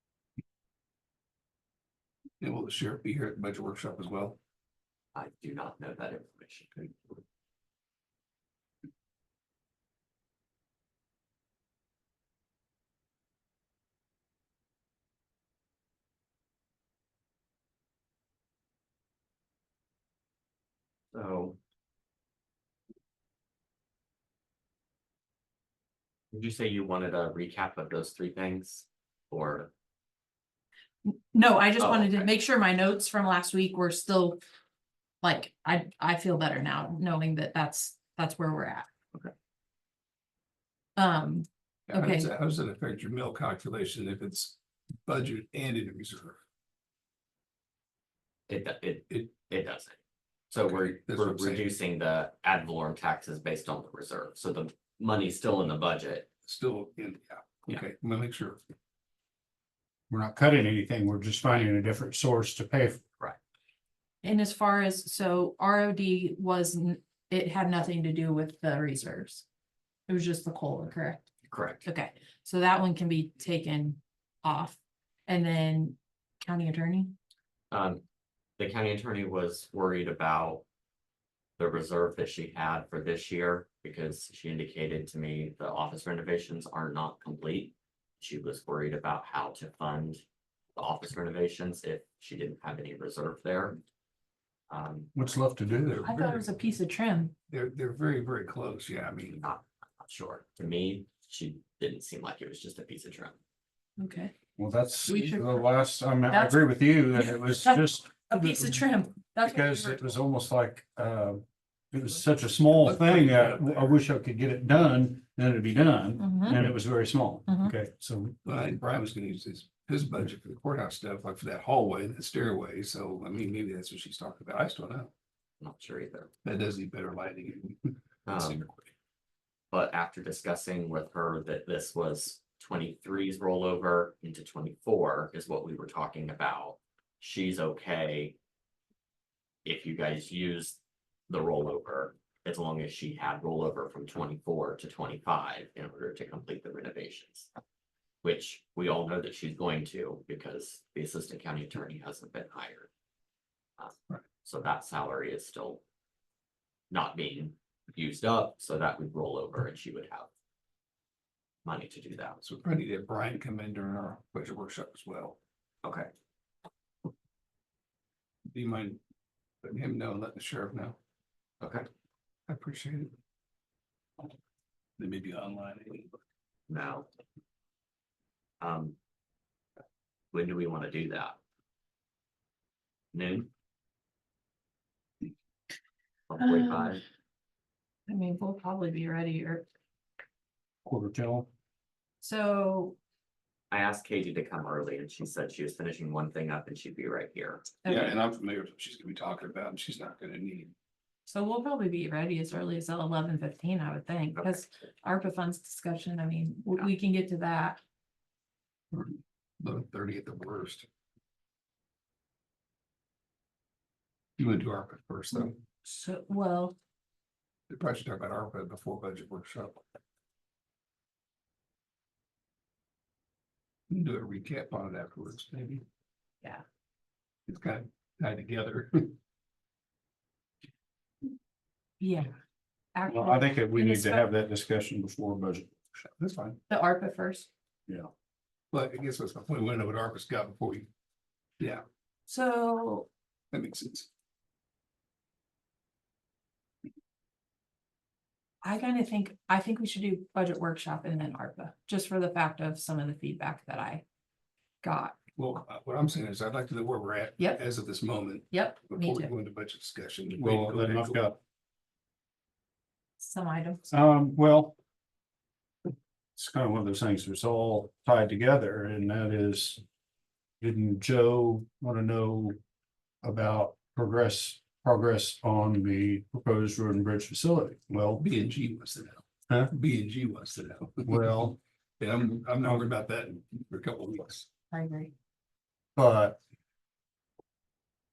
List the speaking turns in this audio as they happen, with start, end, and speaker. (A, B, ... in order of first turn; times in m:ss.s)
0:02.4-0:04.4 A
0:05.1-0:06.8 B
0:21.1-0:21.6 B
0:26.3-0:29.7 B
0:31.0-0:34.4 C
0:31.8-0:32.3 B
0:35.2-0:38.9 C
0:41.0-0:42.3 C
0:41.9-0:46.4 A
0:48.5-0:50.0 B
0:50.5-0:56.3 B
0:50.7-0:51.6 A
0:56.4-0:58.6 A
1:00.1-1:03.0 D
1:04.2-1:09.4 C
1:10.1-1:11.3 C
1:11.5-1:11.9 B
1:11.8-1:17.1 C
1:17.7-1:18.0 B
1:18.6-1:20.6 B
1:21.6-1:30.2 B
1:30.8-1:33.8 B
1:34.7-1:35.1 B
1:35.1-1:36.0 D
1:35.8-1:36.5 A
1:36.0-1:37.3 C
1:37.5-1:39.4 A
1:39.4-1:43.4 B
1:44.0-1:44.3 C
1:44.6-1:48.8 D
1:45.1-1:45.6 C
1:46.3-1:50.2 C
1:49.4-1:58.4 D
1:52.6-1:54.0 A
1:56.2-1:56.6 C
1:57.5-1:57.7 C
1:58.4-2:05.1 A
2:05.6-2:06.3 B
2:06.4-2:08.9 A
2:08.3-2:08.6 B
2:09.7-2:18.4 B
2:19.6-2:20.8 B
2:21.3-2:27.5 B
2:28.2-2:32.9 B
2:33.8-2:35.8 B
2:36.9-2:40.3 B
2:41.6-2:42.4 B
2:42.4-2:45.4 A
2:45.8-2:46.1 B
2:48.5-2:49.0 A
2:49.6-2:51.0 A
2:51.6-2:51.9 B
2:52.5-2:53.1 A
2:55.0-2:56.2 A
2:56.7-2:57.1 B
2:58.6-2:59.0 B
3:00.3-3:01.4 B
3:03.1-3:03.5 B
3:06.3-3:07.0 B
3:06.4-3:06.9 C
3:08.1-3:09.6 C
3:10.8-3:11.5 D
3:12.2-3:13.0 C
3:13.7-3:17.7 B
3:17.8-3:18.2 C
3:17.8-3:20.7 A
3:21.3-3:27.8 C
3:28.9-3:30.9 A
3:34.4-3:35.6 A
3:35.8-3:36.7 C
3:37.7-3:39.8 A
3:43.9-3:45.8 A
3:47.5-3:49.2 A
3:52.0-3:52.3 C
3:52.9-3:54.3 C
3:53.1-3:55.7 D
3:56.0-3:56.6 A
3:56.7-3:57.5 C
3:58.7-4:00.9 A
4:01.6-4:01.8 A
4:02.3-4:03.1 C
4:03.5-4:04.1 A
4:08.6-4:14.0 C
4:14.8-4:15.2 C
4:15.4-4:21.2 A
4:18.5-4:19.3 C
4:20.3-4:21.4 D
4:23.2-4:23.8 C
4:23.9-4:24.7 D
4:26.4-4:29.8 D
4:30.6-4:32.6 D
4:33.2-4:38.2 D
4:38.2-4:41.3 A
4:41.0-4:41.6 D
4:42.0-4:44.5 A
4:44.7-4:45.1 C
4:46.0-4:46.4 D